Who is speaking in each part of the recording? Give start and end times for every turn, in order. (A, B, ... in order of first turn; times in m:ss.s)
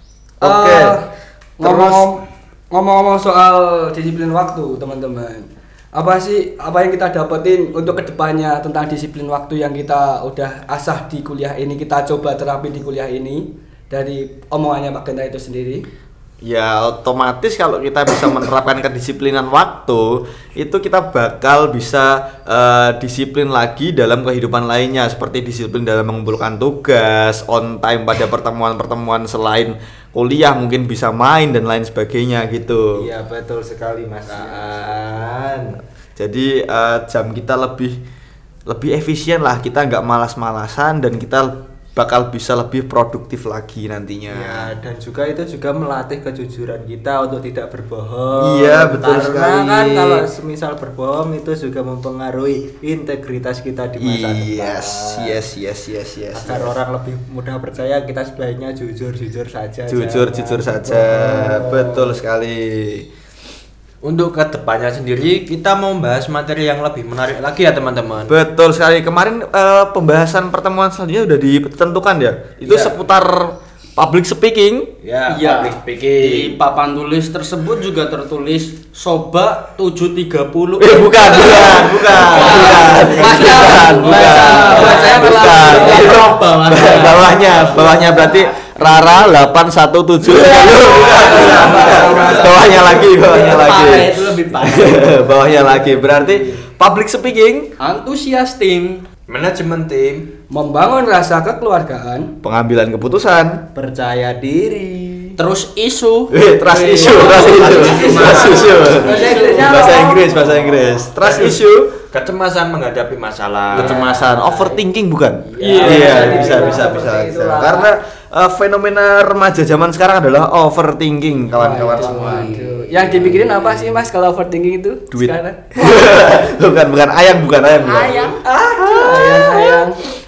0:00.4-0:01.0 A
0:00.4-0:15.8 B
0:01.6-0:02.1 A
0:16.4-0:33.1 A
0:33.0-0:35.8 C
0:36.2-0:38.0 A
0:38.7-0:44.7 A
0:44.3-0:54.7 C
0:48.4-0:50.2 A
0:54.0-0:56.7 A
0:54.7-0:55.4 D
0:56.3-1:02.0 C
0:59.9-1:03.1 A
1:04.0-1:08.4 D
1:08.3-1:14.9 A
1:12.7-1:13.0 D
1:15.0-1:16.6 D
1:15.3-1:29.2 E
1:20.8-1:37.7 A
1:22.2-1:23.4 D
1:23.2-1:25.9 B
1:30.3-1:36.2 E
1:31.0-1:33.1 D
1:37.8-1:39.0 E
1:39.3-1:40.3 D
1:40.5-1:42.3 B
1:42.4-1:43.6 A
1:43.7-1:45.4 C
1:45.4-1:49.9 E
1:46.3-1:51.9 A
1:47.5-1:51.1 C
1:51.2-1:54.0 D
1:53.7-2:02.5 A
1:53.9-1:54.6 E
1:55.6-1:57.9 C
1:55.6-1:56.8 B
1:55.9-1:57.1 E
2:01.6-2:06.0 B
2:01.9-2:03.2 E
2:05.1-2:08.4 A
2:07.8-2:09.1 C
2:08.4-2:10.0 B